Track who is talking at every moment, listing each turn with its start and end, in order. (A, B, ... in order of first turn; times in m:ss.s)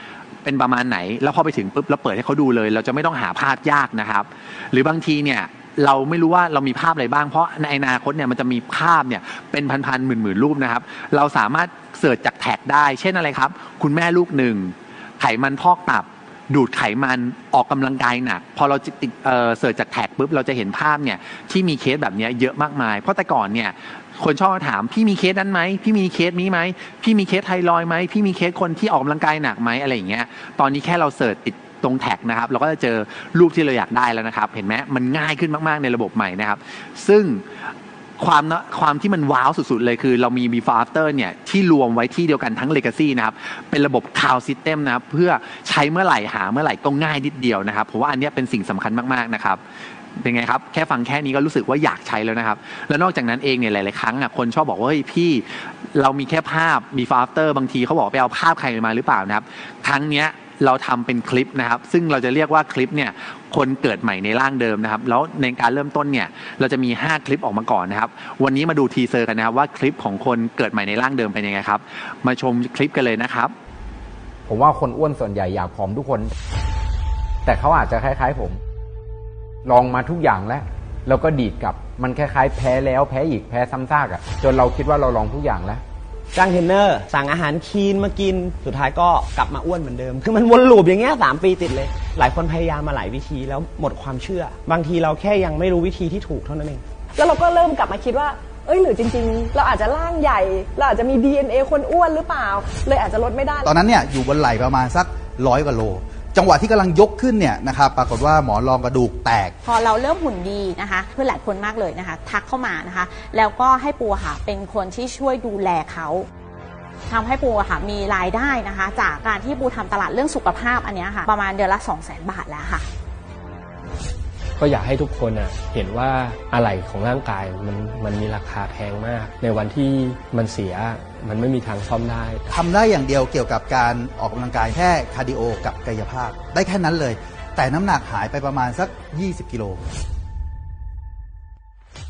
0:00.4-0:37.4 A
0:38.2-0:49.6 A
0:50.2-1:13.5 A
1:14.5-1:16.3 B
1:17.4-1:18.6 B
1:19.6-1:25.8 B
1:26.3-1:36.8 C
1:37.2-1:43.7 D
1:43.6-1:49.5 E
1:49.6-1:56.3 F
1:57.1-2:02.8 F
2:04.6-2:12.5 G
2:12.5-2:19.8 E